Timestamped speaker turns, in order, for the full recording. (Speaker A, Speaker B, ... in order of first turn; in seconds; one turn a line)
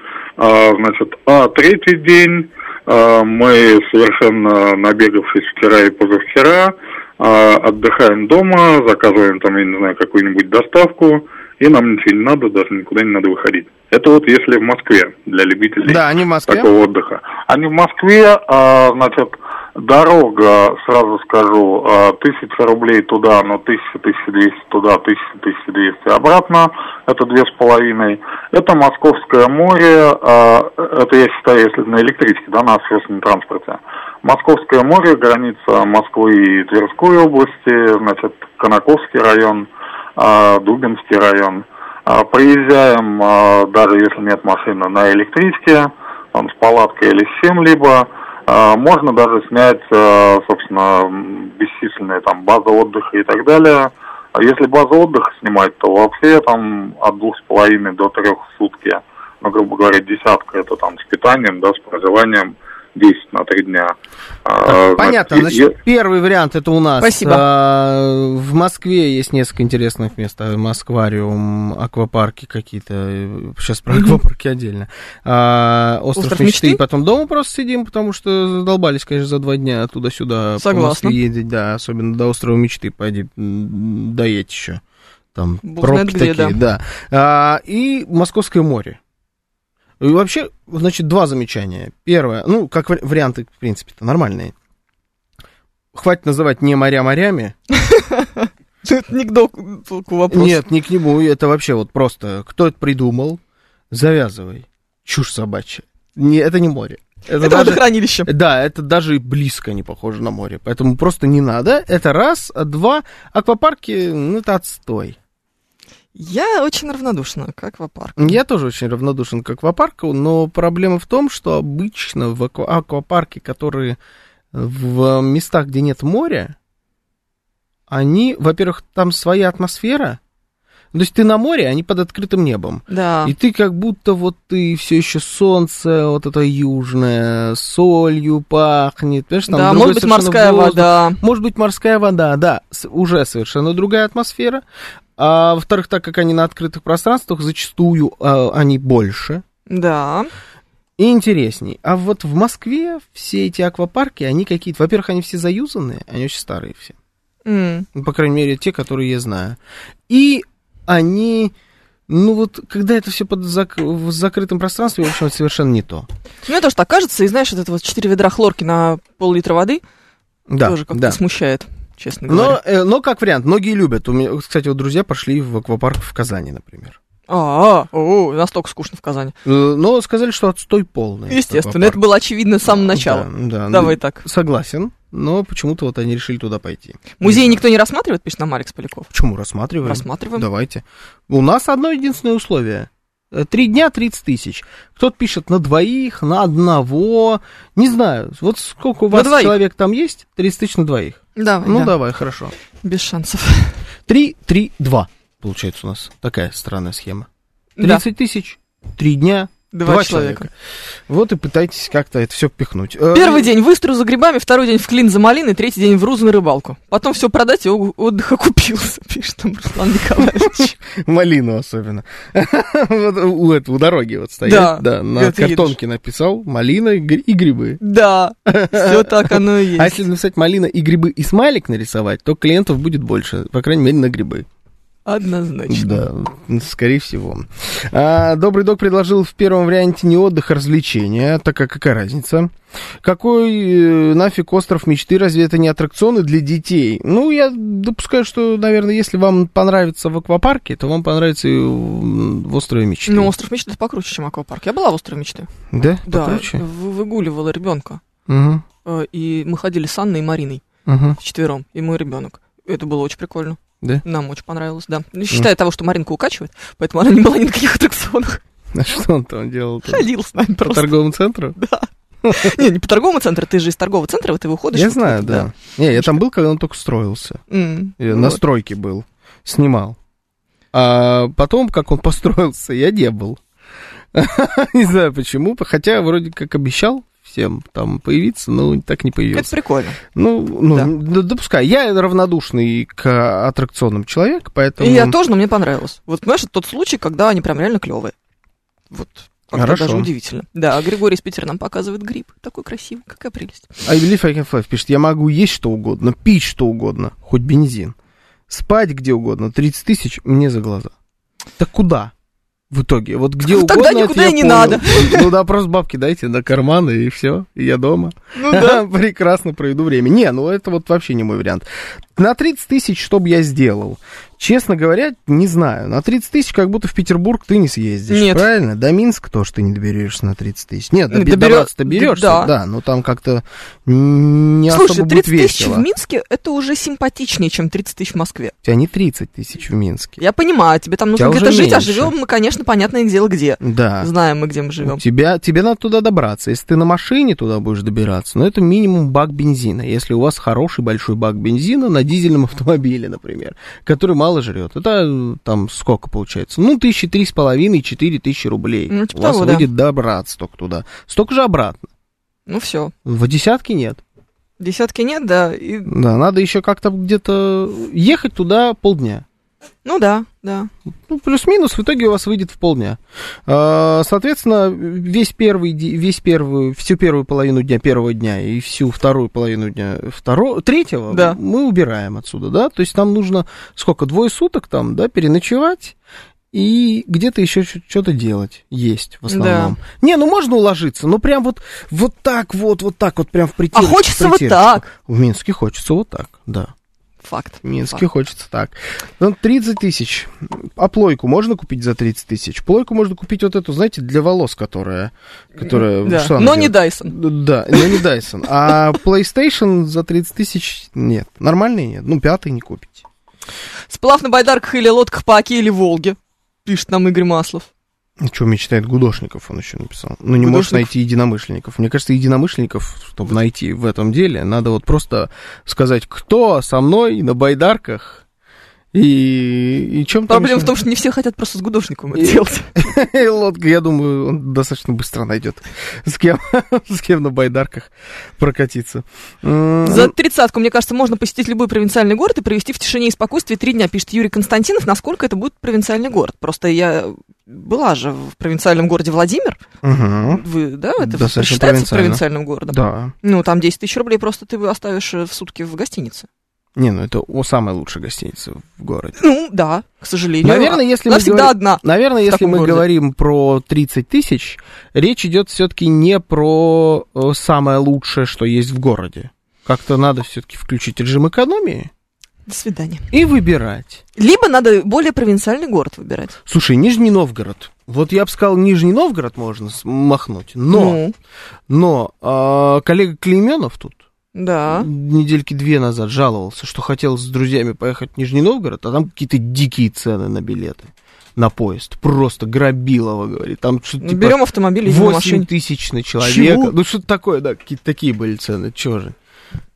Speaker A: 0.4-63.9
Speaker B: 15.8-16.7
Speaker A: 64.5-65.7
Speaker B: 64.7-84.8
Speaker C: 67.0-67.4
Speaker C: 73.9-74.2
Speaker C: 76.2-76.8
Speaker C: 80.6-81.2
Speaker B: 85.3-89.0
Speaker C: 85.6-86.6
Speaker B: 90.0-94.5
Speaker B: 95.9-97.5
Speaker C: 97.7-100.6
Speaker B: 100.3-103.4
Speaker B: 103.9-115.2
Speaker C: 107.4-108.3
Speaker C: 116.1-118.4
Speaker B: 118.2-124.0
Speaker B: 124.5-126.5
Speaker B: 127.9-130.2
Speaker B: 130.9-144.6
Speaker C: 132.9-133.3
Speaker C: 139.5-141.2
Speaker B: 145.2-149.4
Speaker C: 149.7-150.3
Speaker B: 151.0-156.9
Speaker C: 157.4-157.9
Speaker B: 157.9-159.6
Speaker B: 160.1-161.5
Speaker B: 162.1-166.1
Speaker C: 166.5-169.8
Speaker B: 170.5-171.2
Speaker C: 170.6-172.6
Speaker B: 172.3-177.0
Speaker C: 177.3-179.3
Speaker B: 179.4-182.0
Speaker C: 181.3-184.2
Speaker B: 182.6-187.6
Speaker C: 187.2-189.1
Speaker B: 189.1-202.5
Speaker C: 189.8-190.5
Speaker C: 199.1-199.6
Speaker C: 201.3-201.9
Speaker C: 202.8-203.8
Speaker B: 204.1-207.3
Speaker C: 207.8-208.0
Speaker B: 207.8-210.5
Speaker C: 209.7-210.5
Speaker B: 211.1-213.5
Speaker C: 213.1-220.8
Speaker B: 220.4-227.8
Speaker C: 224.4-225.8
Speaker C: 227.8-230.0
Speaker B: 228.4-234.4
Speaker C: 235.1-236.1
Speaker B: 235.7-253.3
Speaker C: 253.1-255.5
Speaker B: 255.7-256.6
Speaker C: 256.1-258.0
Speaker B: 258.3-258.6
Speaker C: 258.8-260.6
Speaker B: 260.9-261.2
Speaker C: 261.2-268.4
Speaker B: 268.7-270.1
Speaker C: 269.9-270.9
Speaker B: 270.6-271.6
Speaker C: 271.6-276.2
Speaker B: 272.2-272.6
Speaker B: 274.7-277.4
Speaker C: 277.5-278.4
Speaker B: 278.0-280.0
Speaker B: 280.7-283.4
Speaker B: 284.1-289.5
Speaker C: 289.3-290.0
Speaker B: 290.1-295.1
Speaker C: 294.8-298.1
Speaker C: 298.9-303.7
Speaker B: 299.5-300.1
Speaker B: 303.8-307.9
Speaker B: 308.5-310.9
Speaker B: 311.6-312.1
Speaker B: 312.7-335.9
Speaker C: 313.4-315.3
Speaker C: 318.3-318.8
Speaker C: 328.1-328.4
Speaker C: 331.1-332.5
Speaker C: 334.7-338.5
Speaker B: 338.6-340.2
Speaker C: 340.2-345.0
Speaker B: 341.1-342.1
Speaker B: 343.6-344.1
Speaker B: 344.8-361.9
Speaker C: 358.9-359.7
Speaker C: 362.5-362.9
Speaker B: 363.0-364.0
Speaker C: 364.6-365.9
Speaker B: 365.9-369.2
Speaker C: 369.8-370.7
Speaker B: 371.1-385.9
Speaker C: 381.1-381.4
Speaker B: 386.5-396.7
Speaker C: 389.3-389.8
Speaker C: 393.7-394.9
Speaker C: 397.2-398.0
Speaker B: 397.6-413.0
Speaker C: 405.6-407.1
Speaker C: 413.9-417.7
Speaker B: 418.2-428.2
Speaker C: 420.4-420.9
Speaker B: 428.9-430.7
Speaker C: 430.3-432.7
Speaker B: 432.1-440.1
Speaker C: 439.8-449.6
Speaker B: 449.8-450.4
Speaker C: 450.3-456.3
Speaker B: 451.0-453.1
Speaker B: 456.8-459.2
Speaker C: 459.2-462.9
Speaker B: 460.4-471.9
Speaker C: 472.5-473.1
Speaker B: 473.1-474.0
Speaker C: 474.1-476.4
Speaker B: 476.4-481.0
Speaker C: 480.7-481.1
Speaker B: 481.7-484.0
Speaker C: 484.3-484.9
Speaker B: 484.7-499.1
Speaker C: 494.0-495.5
Speaker C: 496.2-496.7